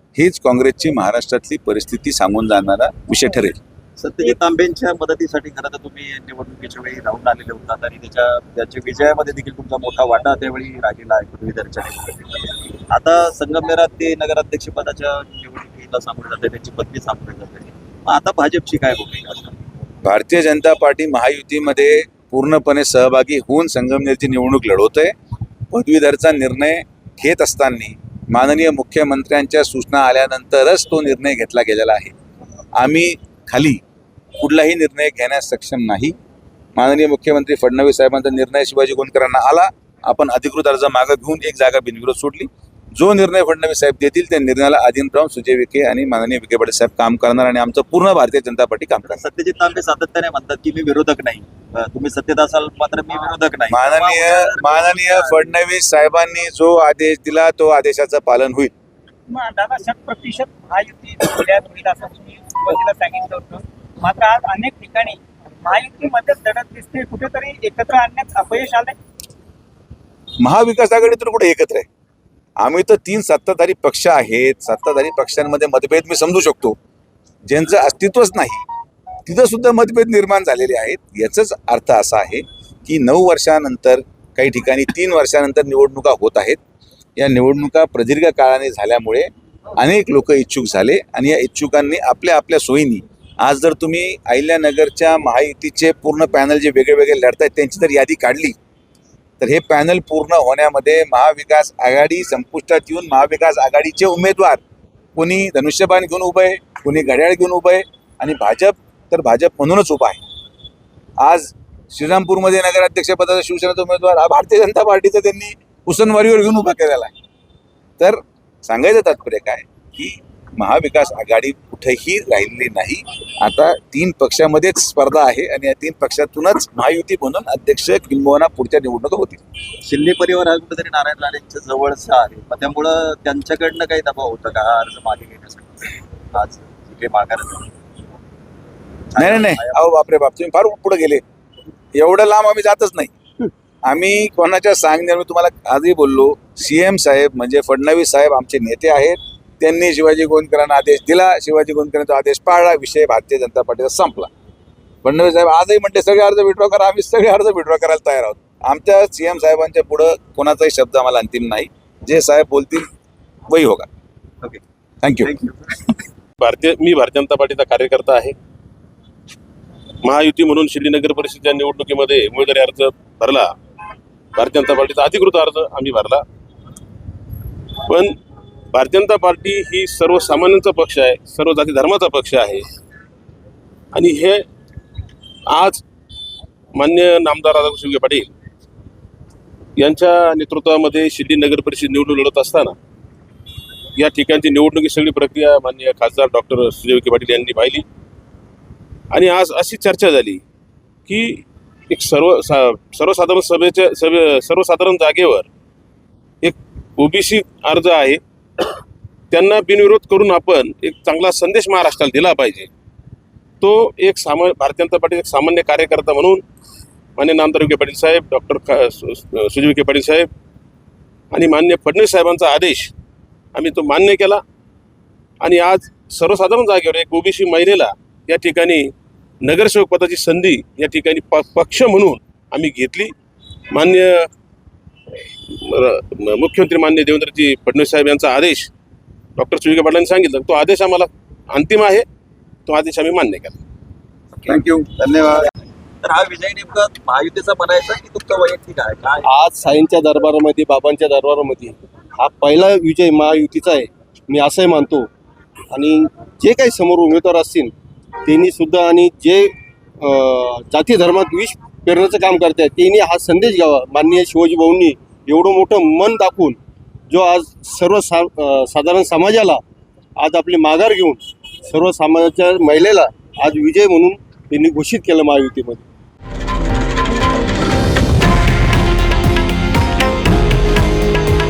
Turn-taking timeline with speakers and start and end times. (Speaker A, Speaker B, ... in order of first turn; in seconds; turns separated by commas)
Speaker A: 0.1-3.6, Speaker B: 4.0-19.6, Speaker A: 20.0-25.1, Speaker A: 25.7-32.1, Speaker A: 32.7-33.8, Speaker A: 34.4-36.1, Speaker A: 36.8-49.2, Speaker B: 49.1-55.5, Speaker A: 53.7-58.7, Speaker C: 59.3-69.0, Speaker A: 70.4-71.9, Speaker A: 72.6-76.8, Speaker A: 77.5-78.6, Speaker A: 79.2-86.6, Speaker A: 87.2-98.5, Speaker A: 99.4-104.6, Speaker A: 105.1-110.2, Speaker A: 111.2-117.1, Speaker A: 118.0-129.4, Speaker B: 129.8-137.7, Speaker B: 139.1-139.8, Speaker A: 139.2-141.2, Speaker A: 141.9-143.1, Speaker A: 143.8-154.3, Speaker A: 155.0-162.9, Speaker A: 163.5-163.9, Speaker A: 165.0-165.3, Speaker B: 165.2-165.8, Speaker D: 166.4-168.3, Speaker D: 170.0-173.5, Speaker D: 174.3-176.2, Speaker D: 177.8-178.2, Speaker D: 178.7-182.7, Speaker D: 183.9-184.4, Speaker D: 185.5-185.8, Speaker D: 186.7-188.3, Speaker D: 189.8-192.7, Speaker D: 193.9-197.8, Speaker D: 199.1-200.4, Speaker D: 201.1-205.5, Speaker D: 206.4-208.7, Speaker D: 209.3-212.7, Speaker D: 213.6-216.4, Speaker D: 217.2-220.3, Speaker D: 221.3-222.9, Speaker D: 223.5-224.4, Speaker D: 225.4-228.9, Speaker D: 229.4-233.1, Speaker D: 233.7-234.3, Speaker D: 235.5-238.7, Speaker D: 239.3-242.0, Speaker D: 242.7-243.6, Speaker A: 244.4-245.5, Speaker B: 246.0-249.3, Speaker E: 249.2-255.1, Speaker E: 255.7-257.7, Speaker E: 258.2-266.6, Speaker E: 267.1-269.6, Speaker E: 270.2-275.8